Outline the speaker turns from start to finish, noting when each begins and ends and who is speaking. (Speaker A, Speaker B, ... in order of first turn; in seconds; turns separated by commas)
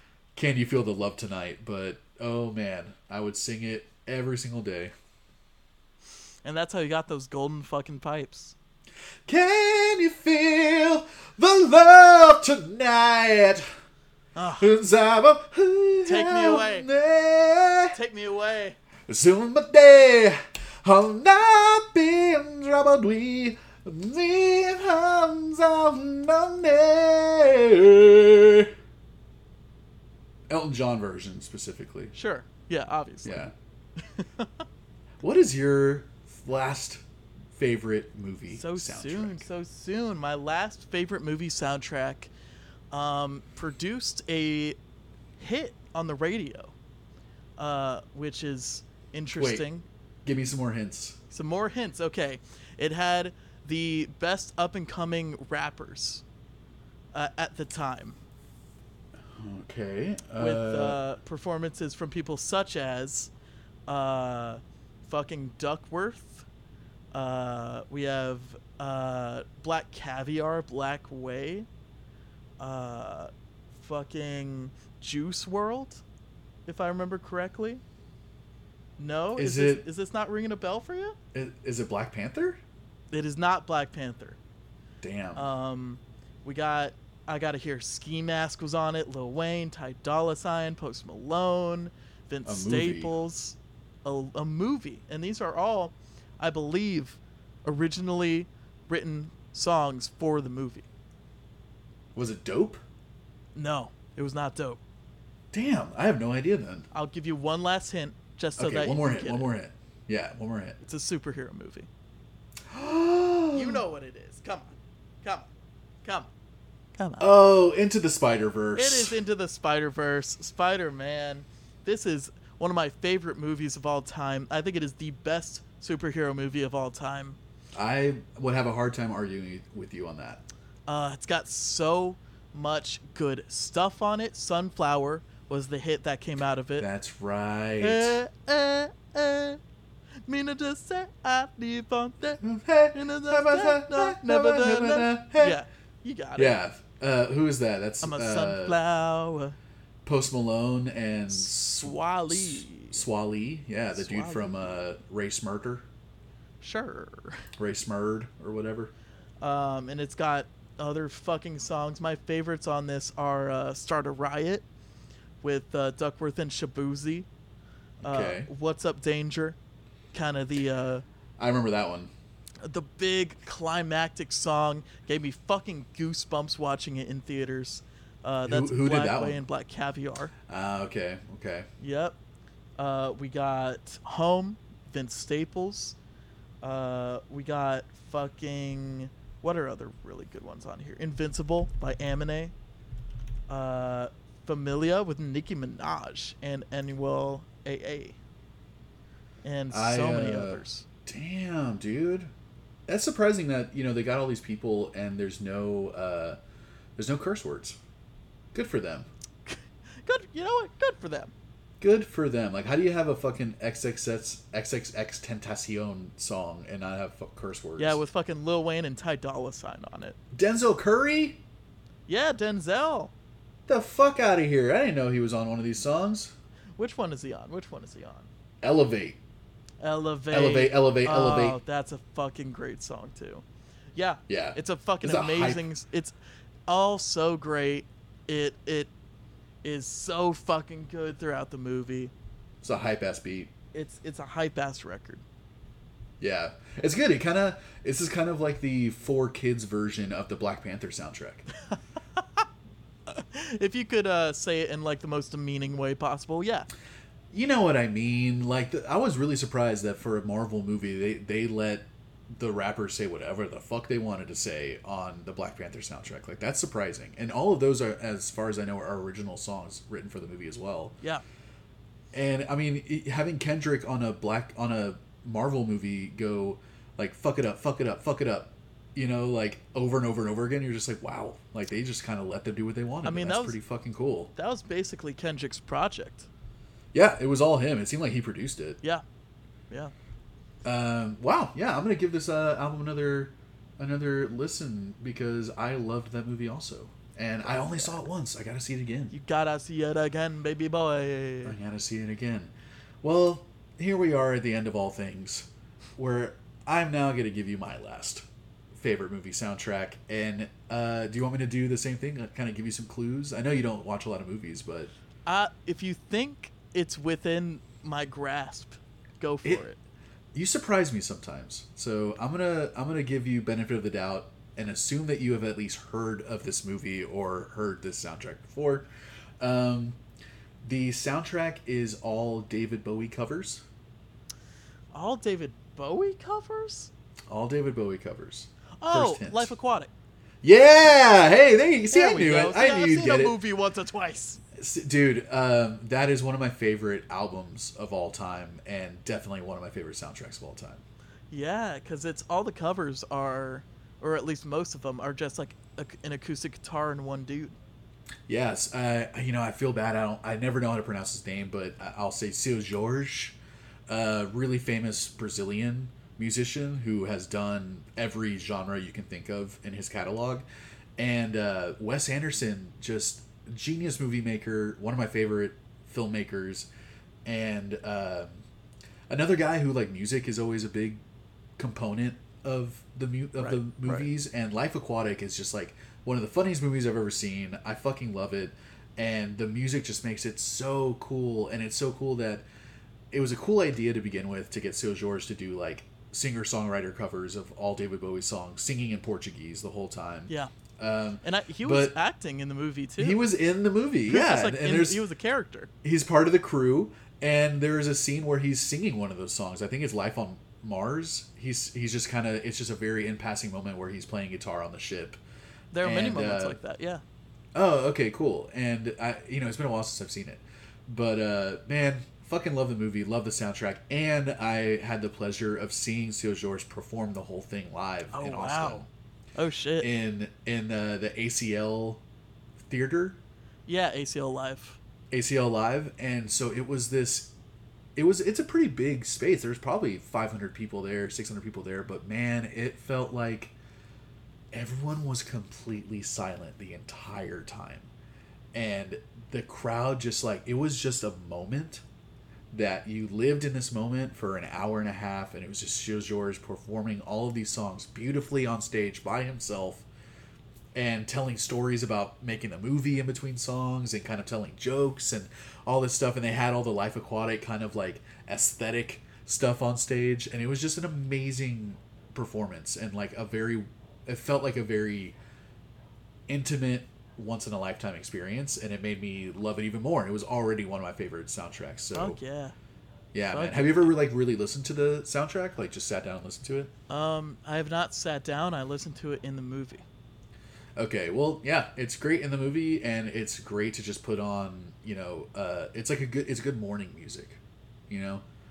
Speaker A: 0.3-4.9, Speaker B: 6.4-8.6, Speaker A: 9.3-13.7, Speaker B: 14.3-14.7, Speaker A: 14.6-18.0, Speaker B: 16.1-16.9, Speaker B: 17.9-18.8, Speaker A: 19.1-28.7, Speaker A: 30.5-32.1, Speaker B: 32.1-34.5, Speaker A: 33.2-33.5, Speaker A: 35.2-37.0, Speaker A: 37.6-39.5, Speaker B: 38.5-42.3, Speaker B: 42.9-44.8, Speaker B: 45.4-46.7, Speaker B: 47.6-49.9, Speaker A: 49.4-49.7, Speaker A: 50.2-51.2, Speaker B: 51.3-56.2, Speaker B: 57.1-58.2, Speaker A: 59.2-61.0, Speaker B: 60.4-63.3, Speaker B: 63.9-66.5, Speaker B: 67.1-71.7, Speaker B: 72.6-76.0, Speaker B: 76.7-77.8, Speaker B: 79.0-81.2, Speaker A: 79.4-79.9, Speaker A: 81.3-82.6, Speaker B: 83.1-84.4, Speaker A: 85.0-85.5, Speaker B: 85.3-100.9, Speaker A: 92.5-93.1, Speaker A: 102.2-102.8, Speaker B: 103.5-104.8, Speaker A: 105.5-106.9, Speaker B: 106.9-109.5, Speaker A: 108.6-110.8, Speaker B: 110.8-111.9, Speaker A: 112.7-113.8, Speaker B: 113.5-115.5, Speaker B: 116.0-116.3, Speaker B: 117.0-117.3, Speaker A: 117.2-119.2, Speaker B: 118.8-127.4, Speaker A: 127.8-130.4, Speaker B: 130.9-136.9, Speaker A: 136.8-138.2, Speaker B: 137.8-139.6, Speaker B: 140.3-142.4, Speaker A: 142.4-145.6, Speaker B: 142.9-146.6, Speaker A: 146.4-148.8, Speaker B: 148.0-149.6, Speaker A: 150.0-155.9, Speaker B: 151.3-153.0, Speaker B: 153.9-154.8, Speaker B: 156.6-157.5, Speaker A: 157.6-158.9, Speaker B: 159.4-164.7, Speaker B: 165.4-167.3, Speaker A: 168.0-168.5, Speaker B: 168.0-169.6, Speaker B: 170.1-171.0, Speaker A: 171.4-172.1, Speaker B: 172.6-180.3, Speaker A: 178.5-179.4, Speaker A: 180.5-181.7, Speaker B: 181.8-182.2, Speaker B: 182.8-186.0, Speaker B: 186.6-192.5, Speaker B: 193.5-198.2, Speaker B: 199.4-200.9, Speaker A: 199.7-202.3, Speaker A: 202.9-206.4, Speaker A: 207.0-207.8, Speaker A: 208.5-209.1, Speaker B: 209.5-211.3, Speaker A: 211.8-218.0, Speaker B: 217.8-220.2, Speaker A: 220.3-221.4, Speaker B: 222.1-223.1, Speaker A: 223.7-226.3, Speaker B: 226.8-228.3, Speaker A: 228.6-229.2, Speaker B: 229.8-236.2, Speaker A: 230.3-231.6, Speaker A: 234.3-235.6, Speaker B: 236.7-238.9, Speaker B: 239.6-242.1, Speaker A: 242.6-243.5, Speaker B: 243.7-245.2, Speaker A: 246.2-251.5, Speaker B: 252.2-252.4, Speaker B: 253.1-256.7, Speaker A: 257.3-271.0, Speaker A: 272.1-284.3, Speaker B: 283.0-283.6, Speaker B: 284.4-286.3, Speaker A: 286.9-288.8, Speaker A: 290.6-299.1, Speaker B: 297.4-298.0, Speaker B: 299.1-301.6, Speaker A: 301.4-314.9, Speaker B: 315.3-319.8, Speaker A: 320.3-328.9, Speaker A: 329.4-330.0, Speaker A: 330.6-333.6, Speaker B: 334.9-336.9, Speaker A: 337.3-339.5, Speaker B: 338.8-339.9, Speaker A: 340.4-343.4, Speaker B: 341.9-344.4, Speaker A: 344.6-350.8, Speaker B: 351.3-357.6, Speaker A: 358.3-363.4, Speaker A: 363.9-370.4, Speaker A: 371.0-376.7, Speaker A: 377.2-378.4, Speaker A: 379.1-381.0, Speaker A: 381.6-392.4, Speaker B: 383.4-384.1, Speaker A: 393.1-402.0, Speaker B: 401.2-403.2, Speaker A: 403.0-405.0, Speaker B: 404.1-405.7, Speaker A: 405.8-415.2, Speaker B: 415.7-417.0, Speaker A: 415.8-416.6, Speaker A: 417.6-428.9, Speaker B: 428.1-429.9, Speaker A: 429.8-432.0, Speaker A: 432.6-433.2, Speaker B: 433.7-434.8, Speaker A: 435.1-437.3, Speaker A: 438.0-443.5, Speaker A: 444.5-447.9, Speaker A: 448.5-451.8, Speaker A: 452.5-459.9, Speaker A: 460.7-475.2, Speaker A: 476.3-482.2, Speaker B: 481.9-482.6, Speaker A: 483.1-486.7, Speaker B: 483.3-483.9, Speaker B: 486.9-489.9, Speaker A: 490.8-498.2